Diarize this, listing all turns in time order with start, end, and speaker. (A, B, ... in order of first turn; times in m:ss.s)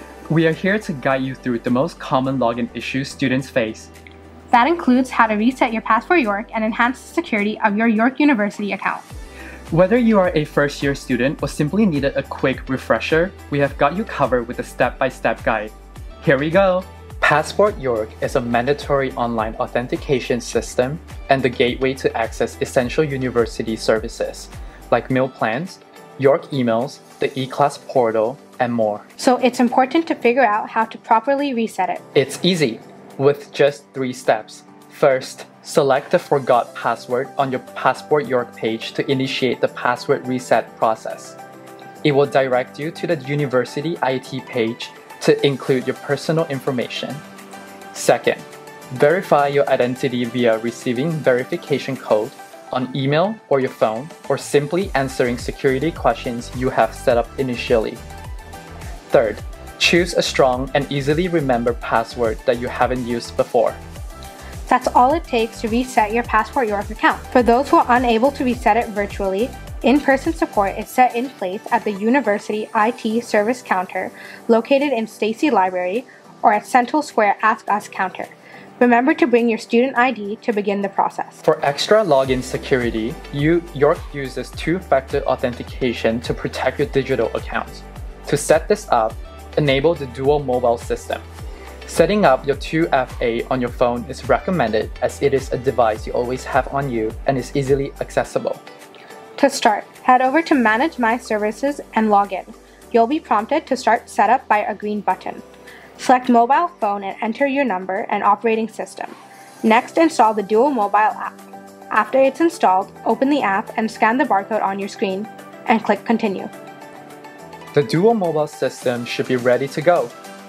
0:00.3-0:03.9 A
0:04.5-0:09.0 B
0:09.7-0:29.0 A
0:29.2-0:32.0 B
0:32.1-0:41.4 A
0:42.0-0:47.2 A
0:47.9-0:58.0 A
0:59.1-1:03.8 A
1:04.7-1:21.4 B
1:21.4-1:31.2 A
1:31.8-1:38.6 A
1:39.4-1:45.4 B
1:46.0-1:51.4 B
1:51.9-1:56.5 B
1:57.7-2:00.1 A